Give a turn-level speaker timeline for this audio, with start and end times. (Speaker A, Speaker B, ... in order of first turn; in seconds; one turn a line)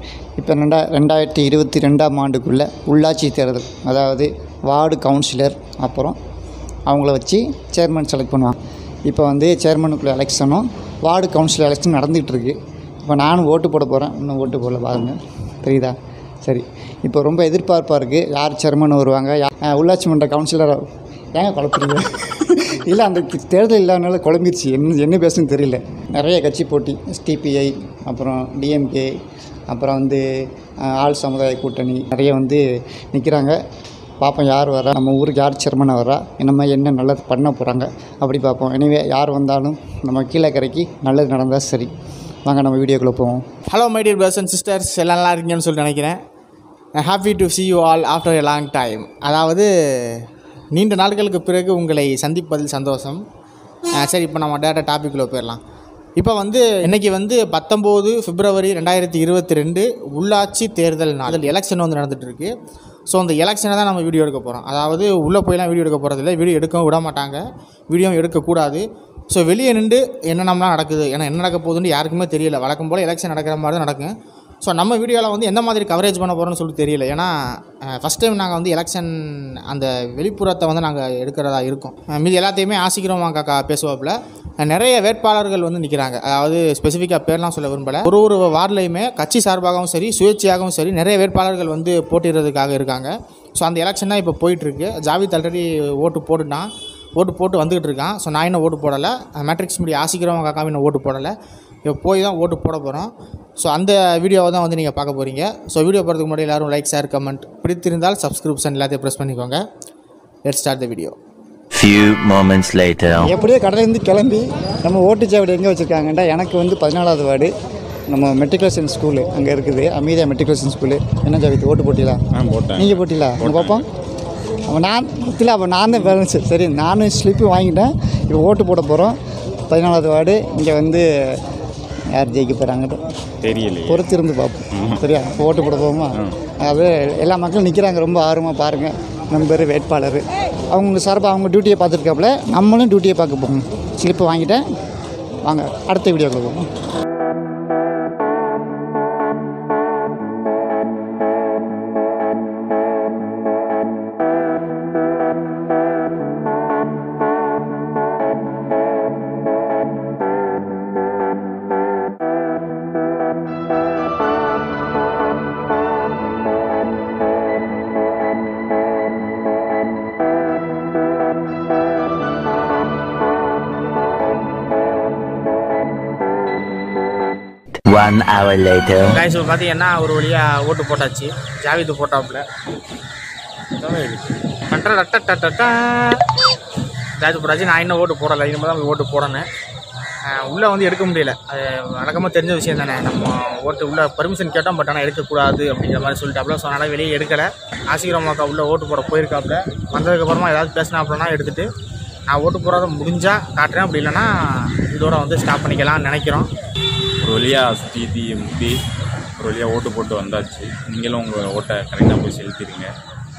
Speaker A: 0.4-6.2
Speaker A: 6.9-20.8
Speaker A: 21.4-29.1
Speaker A: 29.7-30.2
Speaker A: 30.8-33.6
Speaker A: 34.2-41.9
Speaker A: 42.5-43.4
Speaker B: 43.7-46.2
Speaker B: 47.0-53.2
Speaker B: 54.0-55.6
Speaker B: 56.2-62.5
Speaker B: 63.1-74.1
Speaker B: 74.6-101.3
Speaker B: 101.8-109.6
Speaker B: 110.4-111.2
Speaker C: 111.7-113.3
Speaker A: 113.2-117.5
Speaker A: 118.1-122.2
Speaker D: 122.3-123.8
Speaker A: 122.8-123.8
Speaker A: 124.7-129.2
Speaker A: 129.7-131.4
Speaker A: 132.1-133.0
Speaker D: 133.4-134.0
Speaker A: 133.9-144.6
Speaker D: 134.7-135.0
Speaker A: 145.4-146.7
Speaker C: 177.9-179.2
Speaker B: 179.0-182.4
Speaker D: 183.7-184.3
Speaker B: 184.7-186.2
Speaker B: 187.2-189.5
Speaker B: 190.3-201.7
Speaker B: 202.3-206.5
Speaker D: 207.2-208.8
Speaker D: 209.4-212.9